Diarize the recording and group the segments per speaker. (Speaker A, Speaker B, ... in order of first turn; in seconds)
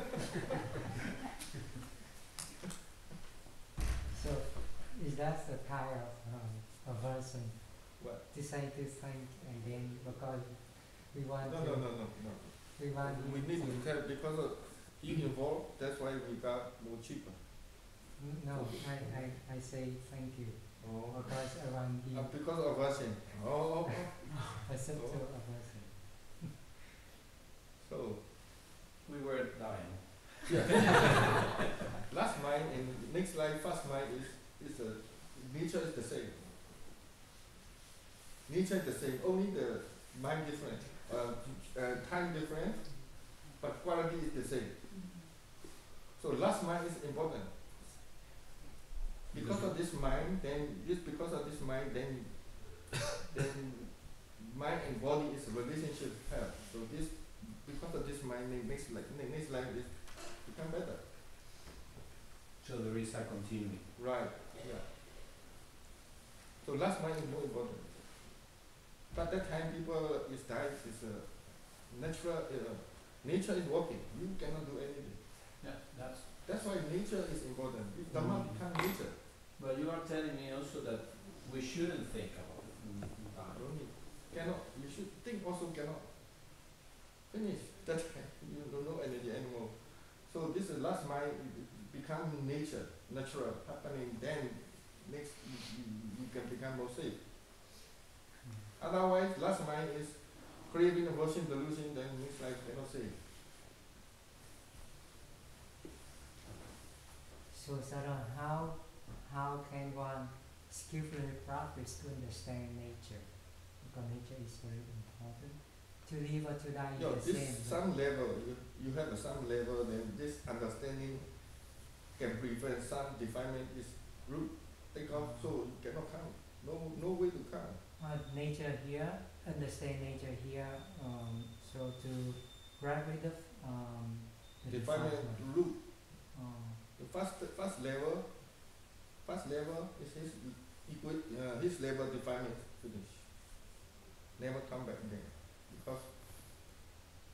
Speaker A: 4.1-13.9, 18.2-22.4, 24.6-26.3, 107.5-117.8, 128.0-136.8
Speaker B: 11.4-18.0, 18.5-19.3, 20.8-21.4, 21.9-25.2, 27.8-28.4, 30.5-31.4, 32.1-36.5, 38.5-44.8, 46.1-47.8, 49.3-61.2, 64.0-64.9, 66.6-68.5, 69.1-79.2, 83.5-86.7, 87.3-97.3, 98.8-103.2, 117.0-127.8, 134.7-135.9, 137.0-143.6, 144.3-146.1
Speaker C: 29.0-31.5, 49.3-49.7, 62.6-64.3, 75.6-76.3, 78.1-79.0, 79.6-83.7